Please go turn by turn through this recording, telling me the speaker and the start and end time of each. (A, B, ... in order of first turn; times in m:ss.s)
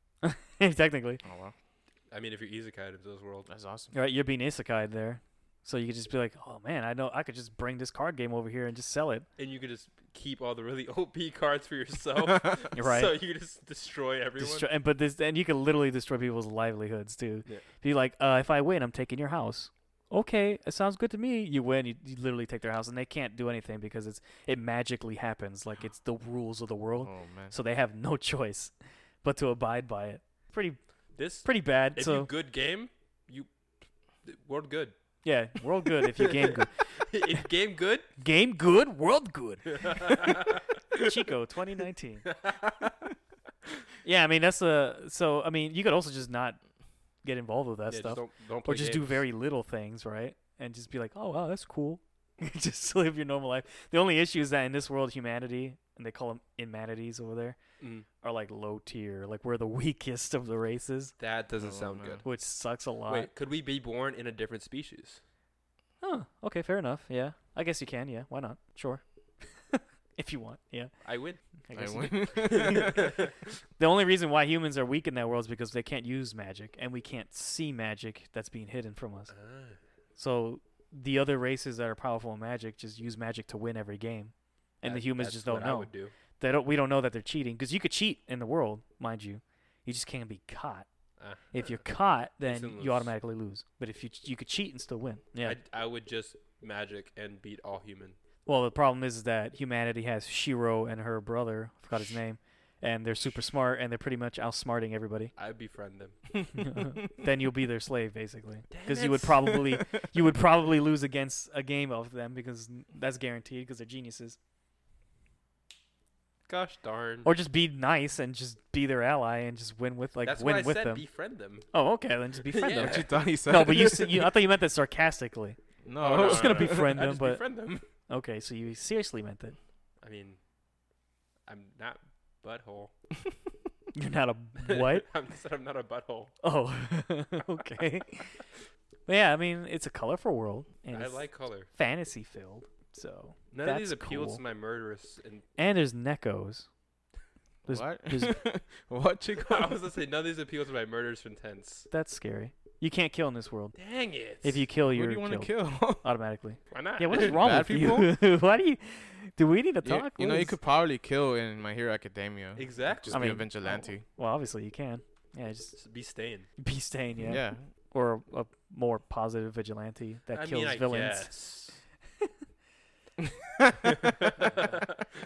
0:00.2-0:01.2 A
0:01.2-0:01.5 B
0:02.1-0:03.5 C
0:03.5-0:03.9 B
0:03.9-0:09.3 A
0:09.4-0:14.7 C
0:12.7-0:13.2 A
0:14.4-0:30.8 A
0:27.0-0:27.5 B
0:31.1-0:33.5 C
0:31.4-0:32.3 A
0:34.2-0:34.9 C
0:35.2-0:36.8 A
0:36.0-0:38.1 C
0:38.2-0:42.3 A
0:39.7-0:41.1 C
0:42.2-0:42.9 C
0:44.0-0:46.6 A
0:47.2-0:57.6 A
0:47.9-0:49.2 C
0:57.8-0:58.0 C
0:58.1-1:01.1 A
1:01.2-1:02.3 C
1:01.6-1:02.2 B
1:02.2-1:03.3 A
1:03.0-1:05.2 C
1:06.0-1:11.0 A
1:11.0-1:11.4 C
1:11.6-1:13.0 A
1:11.7-1:12.9 B
1:12.4-1:13.3 C
1:13.8-1:19.3 A
1:19.3-1:19.8 C
1:20.2-1:30.9 A
1:24.8-1:26.1 C
1:31.2-1:31.8 C
1:31.5-1:35.6 A
1:32.4-1:33.1 C
1:35.4-1:38.2 C
1:38.4-1:45.3 A
1:45.4-1:46.2 C
1:46.5-1:54.4 A
1:48.7-1:49.6 C
1:56.5-1:57.3 C
1:57.2-2:01.0 A
2:00.2-2:01.7 C
2:01.7-2:05.6 A
2:02.4-2:03.1 C
2:02.8-2:04.3 B
2:05.8-2:07.0 B
2:06.0-2:07.9 C
2:06.1-2:07.4 A
2:08.1-2:09.6 A
2:10.0-2:10.4 C
2:11.5-2:12.9 C
2:14.0-2:15.0 A
2:14.6-2:16.4 C
2:16.4-2:18.4 A
2:19.1-2:24.4 A
2:20.9-2:21.7 C
2:23.5-2:25.4 C
2:25.6-2:26.7 A
2:27.6-2:28.4 A
2:27.7-2:29.8 B
2:29.4-2:31.9 C
2:31.9-2:33.8 A
2:33.7-2:34.6 C
2:34.4-2:40.6 A
2:34.9-2:36.1 B
2:36.7-2:37.6 C
2:37.1-2:38.1 B
2:39.8-2:44.0 B
2:42.6-2:43.4 C
2:43.1-2:45.8 A
2:45.7-2:46.5 C
2:46.6-2:51.3 A
2:47.2-2:47.7 B
2:50.3-2:51.8 C
2:53.3-2:53.9 B
2:53.8-2:55.0 C